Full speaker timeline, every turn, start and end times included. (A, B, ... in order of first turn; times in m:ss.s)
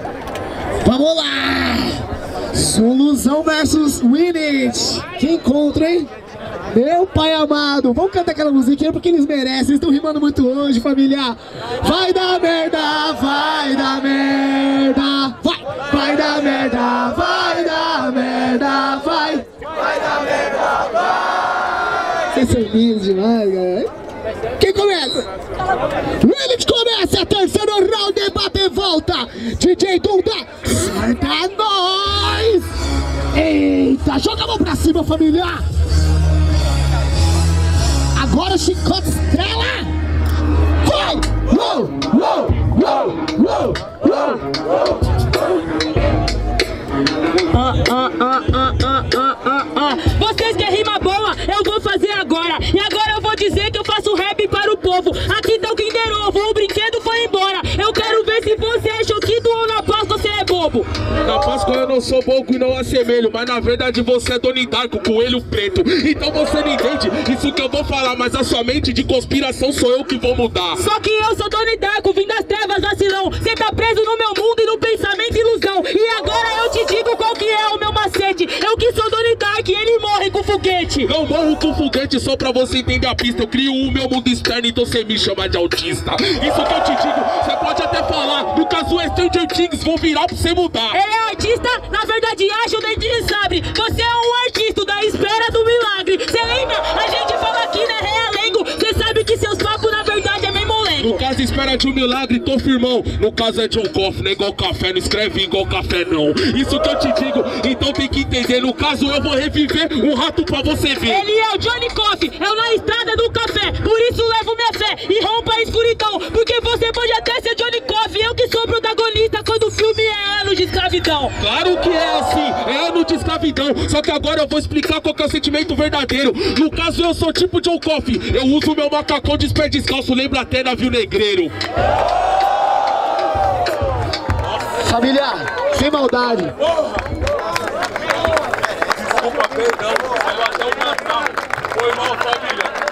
0:00.8-0:06.1 A
0:06.7-0:19.4 A
0:22.3-0:23.9 A
0:24.6-0:25.3 A
0:26.2-0:32.7 A
0:33.3-0:35.6 A
0:38.2-0:39.9 A
0:40.8-0:44.4 A
0:47.5-1:00.9 B
1:01.2-1:10.8 C
1:10.8-1:21.1 B
1:21.0-1:31.0 C
1:30.9-1:41.2 B
1:41.0-1:51.2 C
1:51.1-2:01.4 B
2:01.4-2:11.5 C
2:14.8-2:16.5 A
2:19.5-2:21.1 C
2:21.9-2:22.7 C